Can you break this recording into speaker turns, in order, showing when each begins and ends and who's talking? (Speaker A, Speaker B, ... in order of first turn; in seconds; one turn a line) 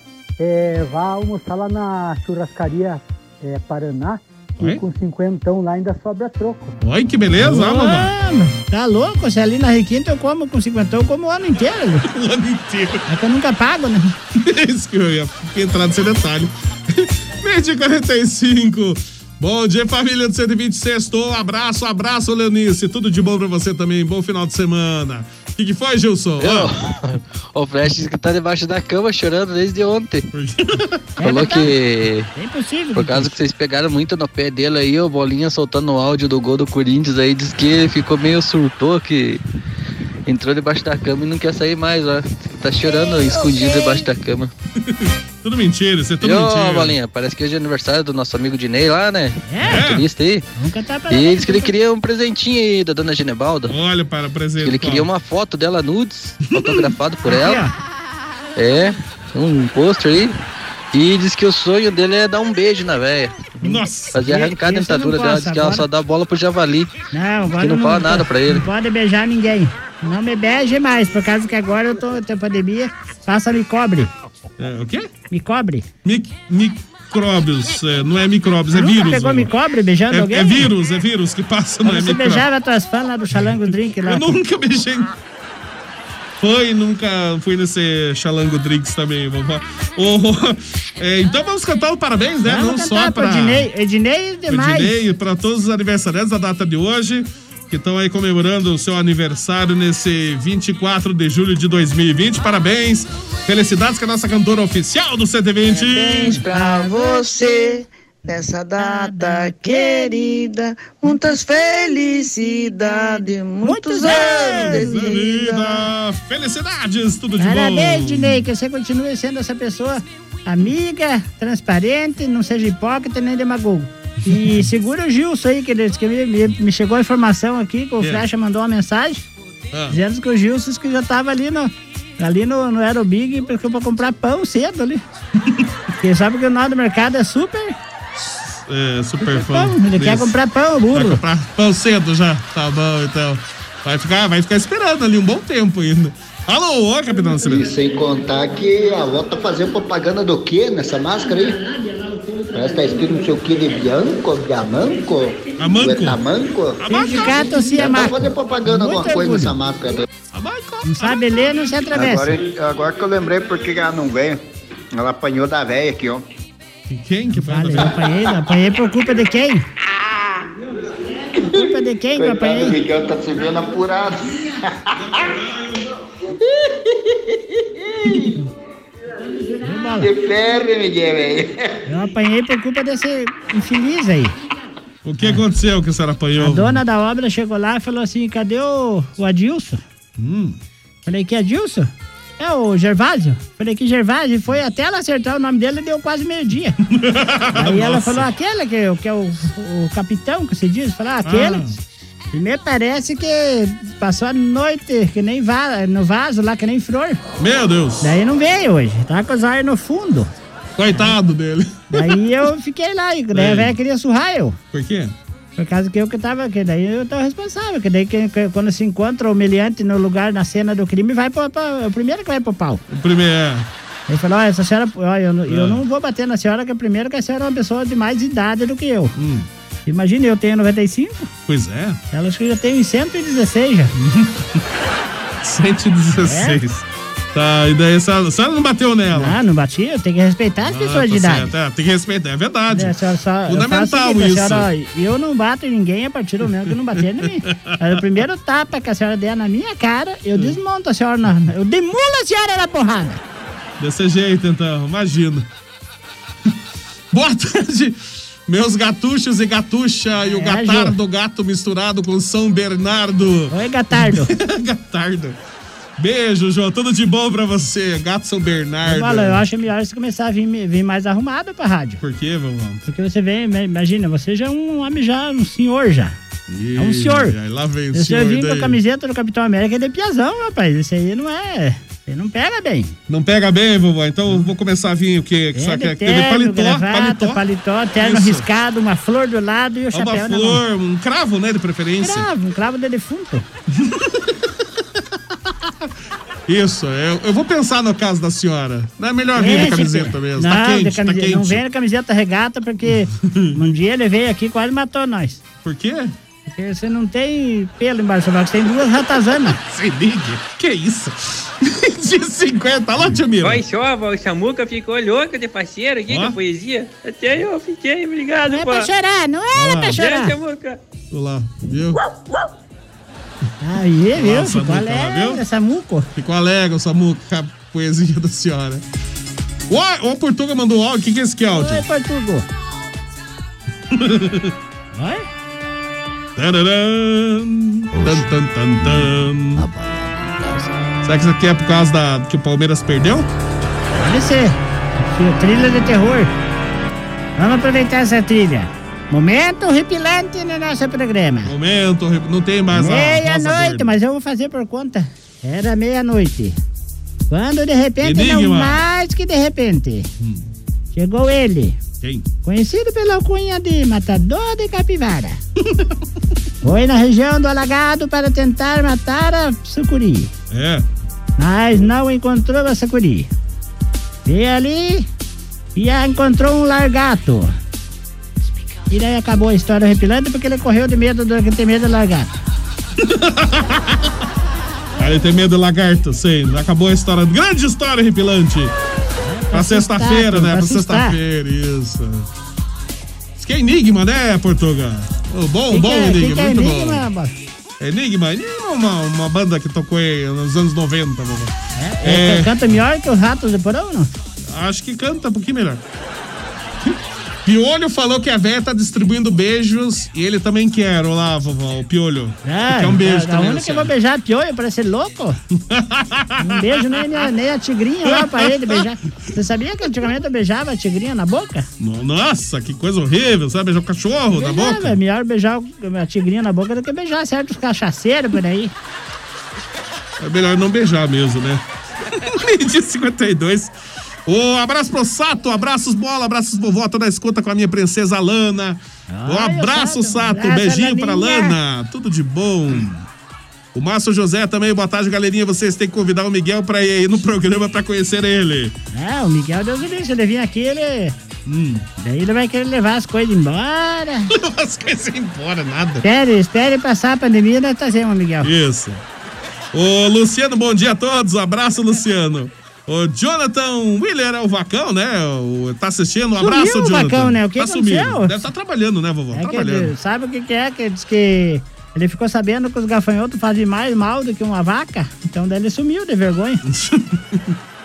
Speaker A: 0.4-6.7
Speaker B: 6.8-8.1
Speaker C: 7.4-12.1
Speaker B: 12.1-13.0
Speaker C: 13.1-14.2
Speaker B: 14.3-26.7
Speaker D: 26.4-30.2
Speaker B: 30.3-31.1
Speaker C: 31.2-31.7
Speaker D: 31.2-32.3
Speaker C: 32.3-33.3
Speaker D: 32.9-39.4
Speaker D: 40.2-44.5
Speaker B: 44.8-47.0
Speaker D: 46.2-50.5
Speaker C: 49.5-49.9
Speaker B: 49.6-50.1
Speaker C: 50.6-51.7
Speaker D: 51.1-53.7
Speaker B: 53.7-55.1
Speaker D: 54.6-57.6
Speaker B: 56.4-56.9
Speaker C: 57.2-57.7
Speaker D: 58.5-60.4
Speaker D: 60.9-63.5
Speaker B: 63.6-64.1
Speaker C: 63.6-65.9
Speaker D: 64.1-66.9
Speaker C: 67.1-74.1
Speaker D: 67.5-68.7
Speaker B: 74.6-75.1
Speaker C: 75.3-75.9
Speaker B: 76.0-79.5
Speaker C: 78.7-80.7
Speaker B: 80.1-82.5
Speaker C: 81.8-84.4
Speaker B: 84.0-85.1
Speaker B: 86.4-93.7
Speaker C: 92.4-95.0
Speaker B: 94.5-106.4
Speaker E: 105.7-115.4
Speaker C: 106.0-107.8
Speaker C: 108.8-110.4
Speaker C: 113.0-115.8
Speaker B: 114.0-118.4
Speaker C: 117.4-129.3
Speaker B: 124.3-124.6
Speaker B: 129.7-130.0
Speaker C: 129.9-135.0
Speaker C: 136.0-137.8
Speaker B: 138.6-140.3
Speaker C: 139.2-141.2
Speaker B: 140.9-147.7
Speaker F: 147.4-151.7
Speaker F: 152.5-160.0
Speaker B: 155.6-156.2
Speaker B: 156.8-157.8
Speaker C: 156.9-159.5
Speaker B: 160.3-161.4
Speaker C: 160.8-162.3
Speaker F: 161.9-164.4
Speaker F: 164.9-166.2
Speaker B: 166.9-168.0
Speaker C: 167.3-169.7
Speaker F: 170.0-170.3
Speaker F: 171.3-175.3
Speaker C: 171.4-172.8
Speaker B: 175.2-175.6
Speaker C: 179.6-180.1
Speaker F: 179.9-181.8
Speaker C: 181.9-184.3
Speaker B: 185.0-186.8
Speaker C: 186.4-189.8
Speaker B: 190.2-190.6
Speaker C: 191.0-196.8
Speaker B: 196.9-198.2
Speaker C: 197.5-201.7
Speaker B: 201.2-201.7
Speaker C: 202.3-207.2
Speaker B: 207.4-208.1
Speaker C: 208.0-210.3
Speaker B: 210.8-212.2
Speaker C: 211.9-214.6
Speaker B: 213.3-213.7
Speaker B: 214.7-215.1
Speaker C: 215.6-222.8
Speaker B: 222.9-223.7
Speaker C: 224.1-229.1
Speaker B: 225.5-225.8
Speaker B: 229.2-229.5
Speaker C: 229.8-231.3
Speaker B: 231.5-232.0
Speaker C: 232.1-233.9
Speaker B: 234.0-234.6
Speaker B: 235.4-239.4
Speaker C: 236.1-236.6
Speaker C: 239.1-241.5
Speaker B: 240.6-242.9
Speaker C: 242.7-253.2
Speaker B: 243.5-244.7
Speaker B: 247.4-247.8
Speaker B: 253.8-255.5
Speaker B: 257.1-265.4
Speaker C: 260.2-261.0
Speaker C: 263.5-264.3
Speaker B: 266.0-269.4
Speaker C: 268.8-272.0
Speaker B: 272.0-272.8
Speaker C: 272.9-276.1
Speaker B: 276.5-278.8
Speaker C: 276.8-277.4
Speaker C: 277.9-282.9
Speaker B: 283.1-287.4
Speaker C: 285.5-290.6
Speaker B: 288.0-288.5
Speaker B: 289.9-292.3
Speaker C: 292.0-293.5
Speaker B: 293.7-294.4
Speaker B: 296.5-301.6
Speaker C: 299.3-305.4
Speaker B: 303.2-303.6
Speaker B: 305.6-306.1
Speaker C: 306.5-309.6
Speaker B: 309.6-313.6
Speaker G: 313.4-318.9
Speaker B: 316.1-316.4
Speaker C: 318.5-320.3
Speaker B: 319.5-320.0
Speaker G: 319.9-320.8
Speaker B: 321.1-322.0
Speaker C: 323.6-326.1
Speaker B: 324.1-325.4
Speaker B: 326.1-328.8
Speaker B: 329.7-331.8
Speaker C: 331.5-332.4
Speaker B: 333.9-334.5
Speaker C: 334.9-335.2
Speaker B: 336.4-339.7
Speaker B: 341.0-343.3
Speaker C: 343.9-346.3
Speaker C: 347.4-351.5
Speaker B: 351.4-353.9
Speaker C: 352.7-356.6
Speaker C: 357.3-360.1
Speaker B: 358.0-358.8
Speaker B: 360.2-360.4
Speaker C: 360.9-361.8
Speaker C: 362.4-365.4
Speaker C: 366.6-370.3
Speaker B: 370.5-370.8
Speaker C: 371.4-373.3
Speaker C: 374.2-375.1
Speaker C: 375.7-377.5
Speaker C: 378.9-382.3
Speaker B: 383.0-384.1
Speaker B: 385.0-388.7
Speaker C: 389.2-391.2
Speaker B: 389.5-392.3
Speaker B: 393.4-397.1
Speaker C: 395.7-397.3
Speaker B: 397.8-402.6
Speaker C: 401.8-404.1
Speaker B: 404.5-405.8
Speaker B: 406.8-413.9
Speaker C: 412.4-415.4
Speaker B: 415.6-417.2
Speaker C: 416.4-421.7
Speaker B: 418.1-418.8
Speaker B: 421.8-425.0
Speaker C: 424.3-428.7
Speaker B: 430.2-431.6
Speaker B: 432.1-433.7
Speaker B: 434.2-443.0
Speaker C: 439.1-441.6
Speaker B: 443.7-448.7
Speaker C: 448.9-451.1
Speaker B: 451.4-451.9
Speaker C: 452.0-454.3
Speaker B: 454.3-456.0
Speaker C: 456.0-458.5
Speaker B: 458.4-459.0
Speaker B: 459.7-469.9
Speaker C: 466.4-468.5
Speaker C: 469.3-476.6
Speaker B: 476.7-477.5